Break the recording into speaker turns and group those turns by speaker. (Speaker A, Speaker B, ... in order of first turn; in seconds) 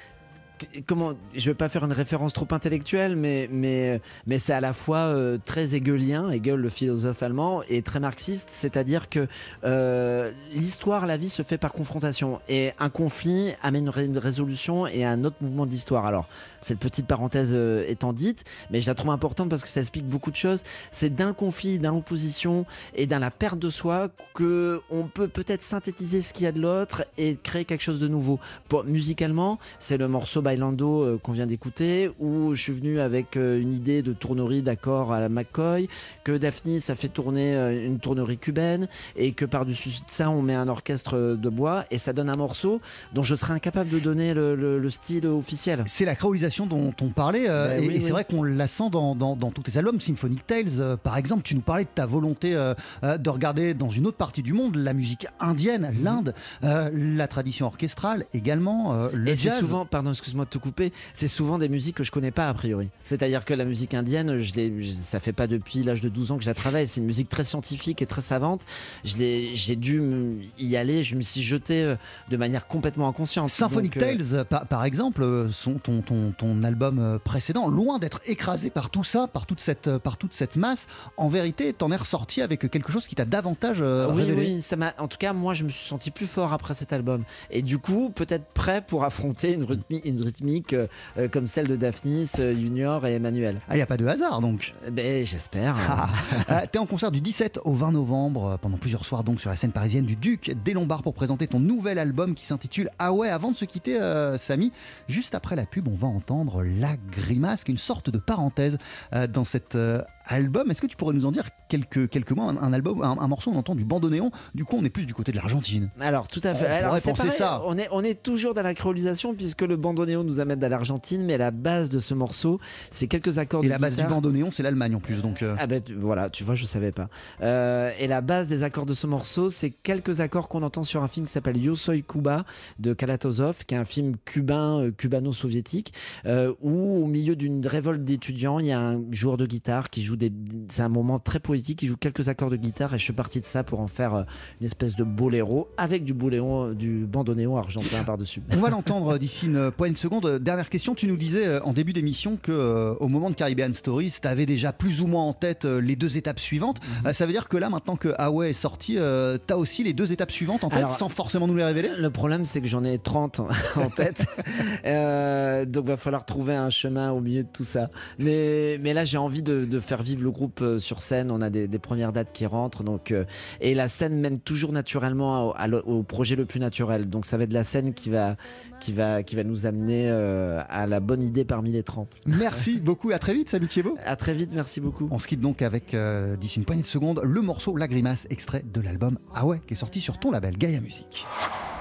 Speaker A: 0.6-45.9, 47.6-48.2, 56.0-56.2, 59.2-74.2, 84.0-93.6, 94.8-96.6, 116.0-124.2, 125.5-148.6, 160.7-161.0, 161.8-182.6, 184.0-185.1
Speaker B: 45.9-59.8, 73.5-84.5, 93.7-94.7, 95.8-115.9, 116.5-117.6, 123.6-125.6, 148.5-162.0, 182.2-184.0, 185.1-191.2